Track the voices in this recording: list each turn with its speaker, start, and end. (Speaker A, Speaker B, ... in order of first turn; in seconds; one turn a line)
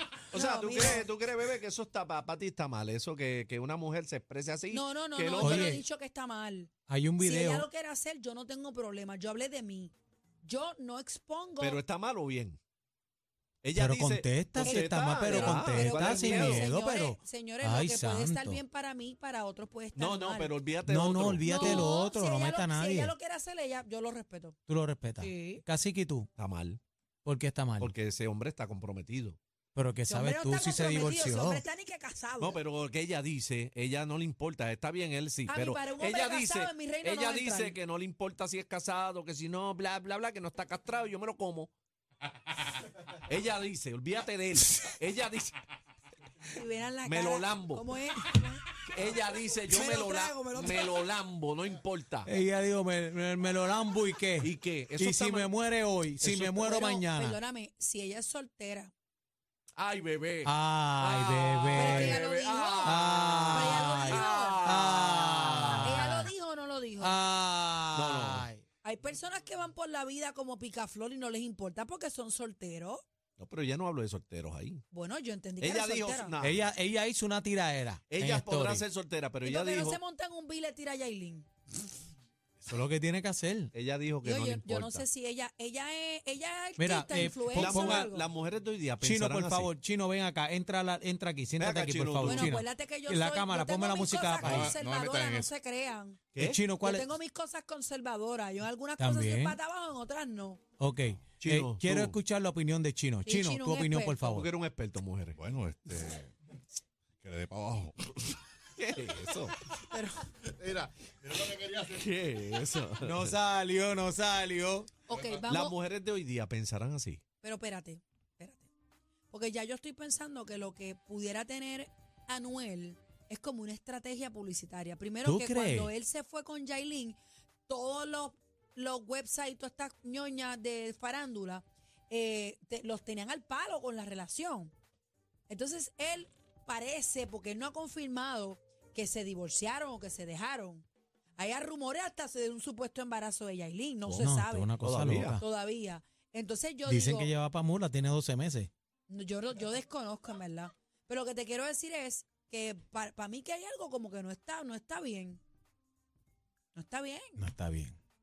Speaker A: 0.3-1.1
Speaker B: 0.3-5.8
Speaker A: 4.7-9.9
Speaker C: 5.4-5.8
Speaker C: 6.9-7.7
Speaker A: 10.4-11.8
Speaker B: 11.6-12.6
Speaker B: 13.6-16.7
Speaker C: 13.8-18.6
Speaker A: 14.6-20.6
Speaker B: 20.0-22.0
Speaker C: 20.9-23.1
Speaker A: 21.4-24.6
Speaker C: 24.7-26.3
Speaker A: 25.2-25.6
Speaker B: 26.4-26.8
Speaker C: 27.2-27.9
Speaker B: 27.8-29.4
Speaker C: 29.8-31.6
Speaker A: 30.1-32.6
Speaker B: 32.4-41.7
Speaker A: 35.5-37.8
Speaker B: 43.3-45.6
Speaker A: 46.5-48.5
Speaker B: 47.0-47.9
Speaker B: 48.8-52.3
Speaker A: 49.7-50.9
Speaker C: 52.3-57.4
Speaker B: 54.4-55.5
Speaker B: 56.2-56.9
Speaker A: 56.6-58.9
Speaker B: 59.8-65.7
Speaker C: 60.5-62.2
Speaker A: 61.7-64.6
Speaker C: 62.8-66.3
Speaker A: 65.5-67.2
Speaker C: 67.0-68.6
Speaker B: 67.9-68.5
Speaker A: 68.8-73.0
Speaker B: 73.4-74.8
Speaker A: 74.9-76.4
Speaker B: 75.6-76.7
Speaker C: 76.4-78.8
Speaker B: 78.1-80.0
Speaker A: 79.4-81.5
Speaker C: 82.6-83.7
Speaker B: 83.7-85.0
Speaker A: 84.2-88.3
Speaker C: 86.8-88.1
Speaker B: 87.2-89.7
Speaker C: 89.0-94.8
Speaker B: 91.6-92.5
Speaker A: 92.2-96.2
Speaker D: 94.4-95.5
Speaker B: 96.3-96.6
Speaker C: 96.4-97.1
Speaker A: 96.8-100.6
Speaker C: 99.0-99.6
Speaker C: 100.8-104.5
Speaker B: 101.4-102.2
Speaker A: 103.3-104.3
Speaker B: 104.3-105.4
Speaker D: 105.4-106.3
Speaker D: 107.2-108.0
Speaker B: 108.8-109.6
Speaker A: 109.9-110.3
Speaker D: 110.8-111.9
Speaker B: 111.9-113.3
Speaker C: 113.0-114.9
Speaker A: 115.1-115.8
Speaker B: 115.5-117.2
Speaker A: 117.4-118.7
Speaker A: 119.3-134.7
Speaker C: 125.2-125.9
Speaker A: 135.5-140.9
Speaker A: 141.4-144.7
Speaker C: 144.1-145.4
Speaker B: 144.8-145.4
Speaker A: 145.4-147.3
Speaker C: 146.9-148.7
Speaker A: 149.1-155.4
Speaker A: 156.7-157.4
Speaker C: 157.4-158.0